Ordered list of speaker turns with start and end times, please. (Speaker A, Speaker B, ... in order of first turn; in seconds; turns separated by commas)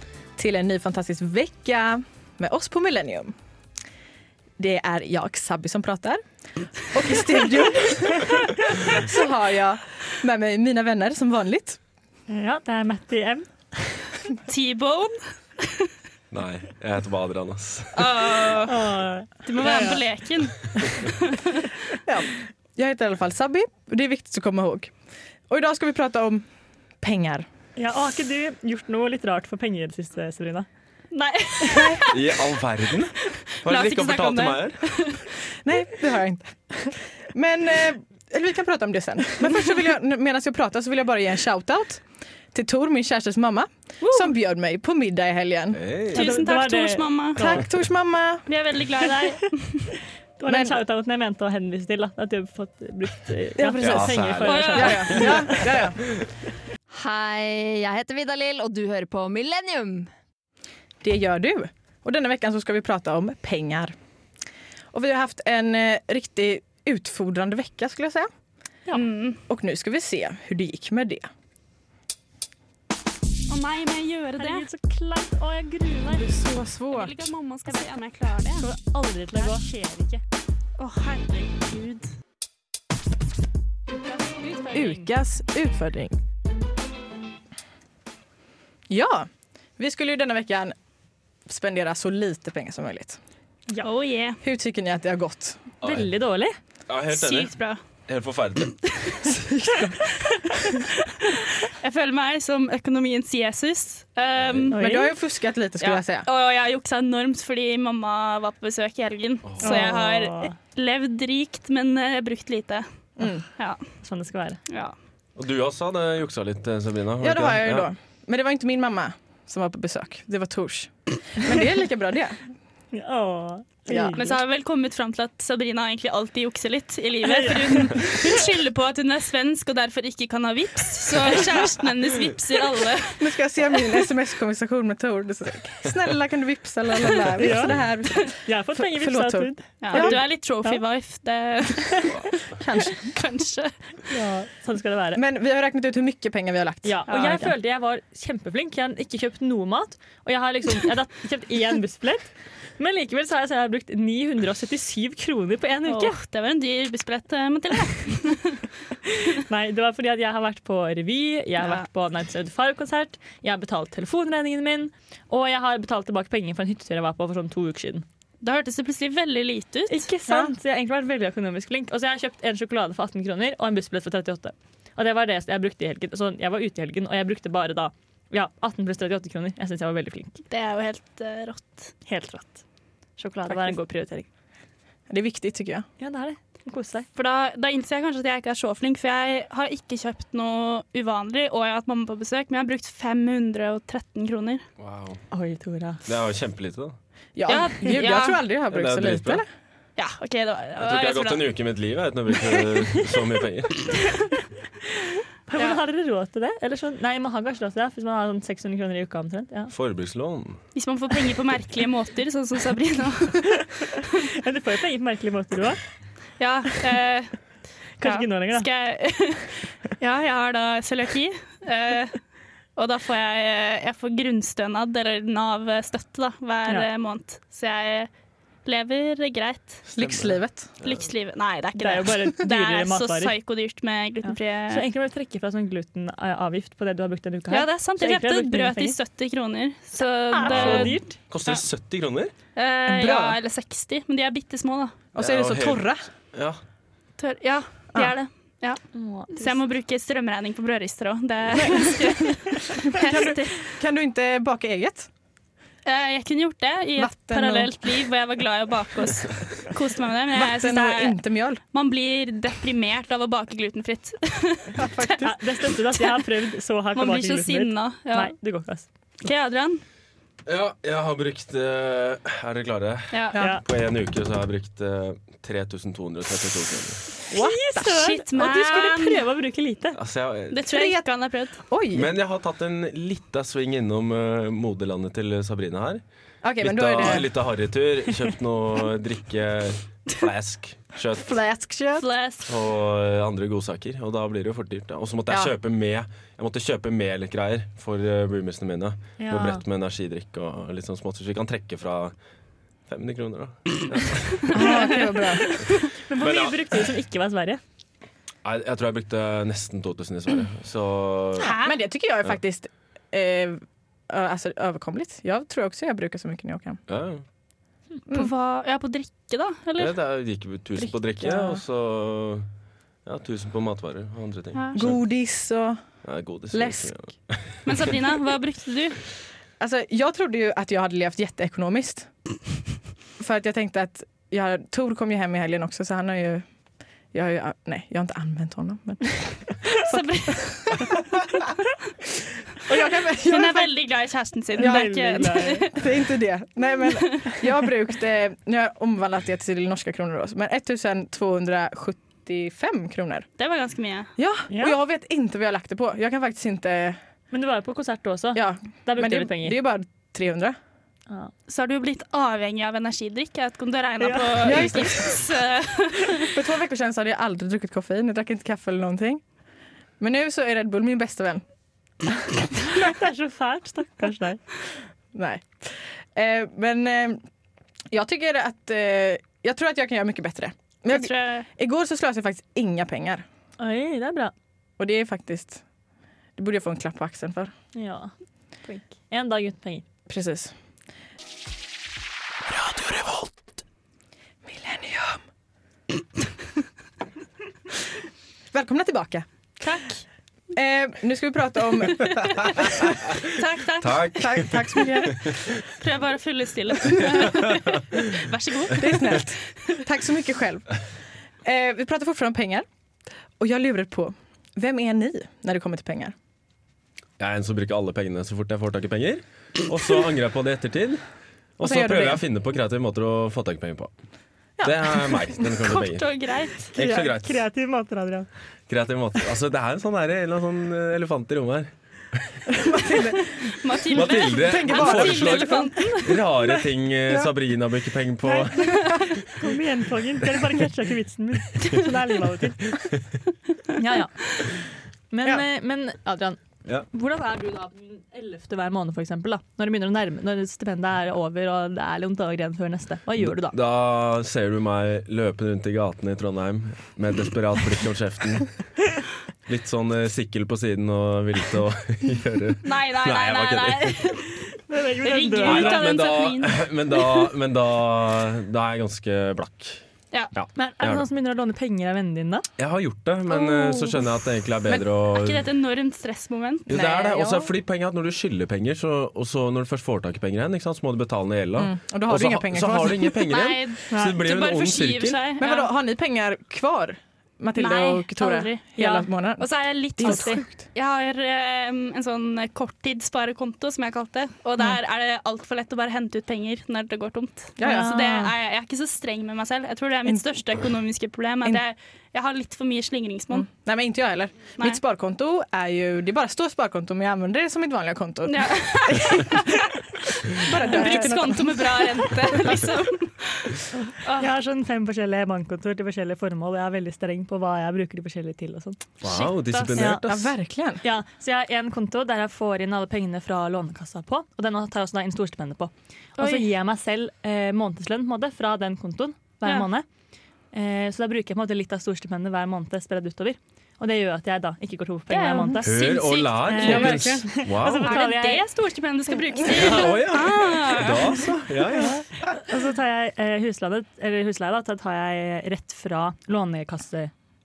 Speaker A: 0.4-3.4, Speaker A: 4.6-6.2, Speaker A: 6.8-11.8, Speaker B: 12.3-14.1, Speaker C: 14.5-15.9, Speaker D: 16.3-18.3, Speaker C: 17.9-18.8, Speaker B: 18.7-20.0, Speaker C: 19.5-21.6, Speaker A: 22.1-24.9, Speaker A: 25.5-26.5, Speaker A: 27.0-27.5, Speaker B: 27.8-30.7, Speaker C: 31.1-32.3, Speaker A: 31.7-32.0, Speaker D: 32.1-34.9, Speaker C: 33.6-35.2, Speaker A: 35.6-45.8, Speaker D: 45.7-46.4, Speaker C: 46.1-47.6, Speaker B: 46.1-47.6, Speaker A: 47.4-48.5, Speaker C: 48.5-49.9, Speaker B: 49.0-49.3, Speaker B: 50.4-55.5, Speaker A: 50.5-50.8, Speaker A: 53.6-56.0, Speaker D: 53.8-55.5, Speaker C: 54.4-55.4, Speaker E: 56.9-60.1, Speaker A: 61.0-64.0, Speaker A: 64.9-68.3, Speaker C: 68.9-69.4, Speaker A: 69.5-71.3, Speaker C: 73.5-74.7, Speaker B: 74.4-76.3, Speaker A: 76.1-77.3, Speaker C: 76.9-78.7, Speaker B: 78.6-80.2, Speaker C: 80.8-82.1, Speaker B: 84.5-85.1, Speaker A: 84.7-86.2, Speaker A: 88.9-90.8, Speaker A: 91.5-93.2, Speaker C: 93.8-94.4, Speaker A: 94.4-95.6, Speaker D: 95.8-96.1, Speaker B: 95.8-96.6, Speaker D: 96.9-97.5, Speaker C: 97.1-97.8, Speaker D: 98.1-99.1, Speaker C: 98.9-99.3, Speaker A: 99.3-100.7, Speaker C: 101.3-104.9, Speaker D: 104.3-104.7, Speaker B: 104.7-105.1, Speaker A: 104.8-106.3, Speaker C: 105.8-112.9, Speaker D: 109.5-109.9, Speaker B: 109.6-110.5, Speaker A: 113.2-113.5, Speaker B: 114.0-114.6, Speaker C: 114.7-114.9, Speaker D: 115.4-117.9, Speaker A: 117.2-122.4, Speaker B: 122.9-124.3, Speaker A: 123.9-124.3, Speaker C: 124.2-133.3, Speaker B: 127.2-128.1, Speaker A: 133.2-140.2, Speaker B: 137.4-140.8, Speaker C: 139.8-142.2, Speaker A: 142.6-143.2, Speaker C: 142.9-144.1, Speaker B: 144.1-145.2, Speaker A: 145.2-147.5, Speaker B: 146.8-156.2, Speaker C: 147.1-147.4, Speaker C: 155.9-158.6, Speaker B: 159.2-168.1, Speaker C: 168.4-170.1, Speaker B: 169.9-180.4, Speaker A: 170.3-170.5, Speaker C: 180.5-181.9, Speaker B: 182.1-182.6, Speaker B: 183.2-184.3, Speaker A: 185.1-185.9, Speaker B: 186.0-187.1, Speaker C: 187.2-194.6, Speaker D: 194.8-195.2, Speaker B: 195.3-196.1, Speaker D: 196.1-196.9, Speaker A: 197.4-199.5, Speaker C: 197.5-198.5, Speaker D: 198.7-199.4, Speaker C: 200.0-201.5, Speaker D: 200.8-203.9, Speaker B: 205.5-209.7, Speaker D: 209.7-210.6, Speaker C: 210.8-214.1, Speaker B: 214.3-215.8, Speaker C: 216.4-217.3, Speaker B: 218.0-218.7, Speaker C: 218.0-222.2, Speaker C: 222.8-228.1, Speaker C: 228.7-229.8, Speaker A: 229.9-230.7, Speaker D: 230.0-231.0, Speaker C: 230.8-234.8, Speaker B: 231.8-233.3, Speaker B: 234.2-239.0, Speaker C: 237.5-241.7, Speaker B: 240.3-241.2, Speaker D: 240.4-242.3, Speaker C: 242.6-245.0, Speaker A: 242.9-243.4, Speaker A: 245.1-246.1, Speaker D: 245.2-246.6, Speaker C: 247.2-248.8, Speaker B: 248.9-249.6, Speaker C: 249.3-253.7, Speaker A: 251.6-252.1, Speaker A: 252.9-255.1, Speaker C: 255.8-261.2, Speaker A: 257.0-257.9, Speaker A: 260.4-261.6, Speaker C: 261.7-265.3, Speaker A: 264.8-265.3, Speaker B: 265.2-268.9, Speaker C: 266.0-266.2, Speaker C: 266.9-268.3, Speaker C: 269.2-269.8, Speaker D: 270.5-277.0, Speaker B: 273.4-273.6, Speaker A: 277.3-278.0, Speaker B: 277.3-280.0, Speaker C: 277.9-279.2, Speaker D: 279.9-280.7, Speaker C: 280.5-281.6, Speaker A: 280.7-281.0, Speaker A: 281.7-282.1, Speaker D: 281.9-286.0, Speaker A: 286.4-287.3, Speaker D: 286.6-291.4, Speaker A: 291.2-292.1, Speaker C: 292.0-292.5, Speaker D: 292.5-302.1, Speaker B: 299.2-299.6, Speaker D: 302.9-304.9, Speaker A: 304.5-305.6, Speaker B: 304.6-307.6, Speaker D: 306.2-306.7, Speaker D: 308.4-311.6, Speaker A: 311.4-316.8, Speaker B: 311.4-311.7, Speaker D: 316.9-317.2, Speaker C: 318.1-319.9, Speaker D: 319.8-322.5, Speaker A: 320.8-321.6, Speaker D: 323.1-325.0, Speaker C: 324.6-324.8, Speaker A: 324.8-325.8, Speaker D: 326.0-328.0, Speaker A: 326.5-326.9, Speaker C: 327.6-329.0, Speaker A: 329.6-332.1, Speaker A: 333.2-336.4, Speaker A: 337.1-341.4, Speaker C: 339.7-340.9, Speaker A: 342.5-343.8, Speaker C: 343.3-345.8, Speaker B: 344.6-345.7, Speaker A: 344.6-353.3, Speaker C: 353.4-354.1, Speaker A: 354.2-357.0, Speaker B: 354.5-354.8, Speaker B: 357.3-359.6, Speaker A: 358.4-360.6, Speaker C: 361.5-366.3, Speaker B: 364.0-364.7, Speaker A: 364.4-365.2, Speaker A: 366.3-369.2, Speaker A: 370.0-371.4, Speaker B: 372.6-374.4, Speaker A: 375.1-377.2, Speaker A: 377.9-383.2, Speaker C: 380.9-381.5, Speaker B: 383.6-384.3, Speaker A: 384.8-385.6, Speaker A: 386.4-387.5, Speaker B: 387.8-388.1, Speaker B: 388.7-389.8, Speaker A: 390.1-390.5, Speaker A: 392.9-393.1, Speaker A: 394.4-395.2, Speaker A: 398.5-399.3, Speaker C: 399.6-400.0, Speaker A: 400.6-402.9, Speaker C: 403.3-404.2, Speaker D: 403.8-405.3, Speaker A: 404.2-405.3, Speaker C: 405.7-409.3, Speaker D: 407.5-407.8, Speaker A: 408.8-410.8, Speaker A: 411.4-412.7, Speaker A: 413.4-416.1, Speaker D: 417.2-421.0, Speaker D: 421.6-423.9, Speaker A: 421.6-422.2, Speaker A: 424.6-424.9, Speaker D: 424.6-426.1, Speaker C: 425.5-426.7, Speaker D: 426.7-427.4, Speaker B: 426.8-428.3, Speaker D: 428.7-432.4, Speaker A: 432.5-435.8, Speaker C: 433.5-436.2, Speaker D: 433.9-438.8, Speaker B: 438.2-438.8, Speaker A: 438.7-439.1, Speaker B: 439.3-442.7, Speaker B: 443.8-444.1, Speaker B: 445.1-446.4, Speaker B: 446.9-453.6, Speaker D: 453.2-458.5, Speaker D: 459.5-464.1, Speaker C: 462.6-464.3, Speaker B: 464.7-465.9, Speaker C: 465.0-467.3, Speaker D: 465.4-469.8, Speaker D: 470.3-471.1, Speaker B: 470.6-472.5, Speaker D: 472.6-475.5, Speaker C: 473.7-473.9, Speaker C: 475.1-476.7, Speaker A: 476.7-477.5, Speaker D: 476.7-485.2, Speaker A: 481.6-483.2, Speaker C: 483.3-485.7, Speaker B: 483.9-484.2, Speaker A: 485.4-489.5, Speaker C: 487.6-503.5, Speaker A: 490.0-490.6, Speaker B: 490.0-490.4, Speaker A: 497.6-498.0, Speaker B: 497.6-498.3, Speaker A: 503.3-509.7, Speaker C: 508.3-509.4, Speaker A: 510.3-512.5, Speaker C: 510.4-514.3, Speaker B: 510.7-511.2, Speaker B: 513.9-518.8, Speaker D: 519.0-520.4, Speaker C: 519.0-519.9, Speaker B: 519.8-520.1, Speaker A: 520.1-520.8, Speaker B: 520.8-529.9, Speaker C: 526.2-526.5, Speaker B: 530.5-535.7, Speaker C: 535.1-541.3, Speaker D: 535.6-538.0, Speaker B: 536.5-538.4, Speaker A: 536.8-537.2, Speaker D: 539.5-542.1, Speaker B: 542.4-547.1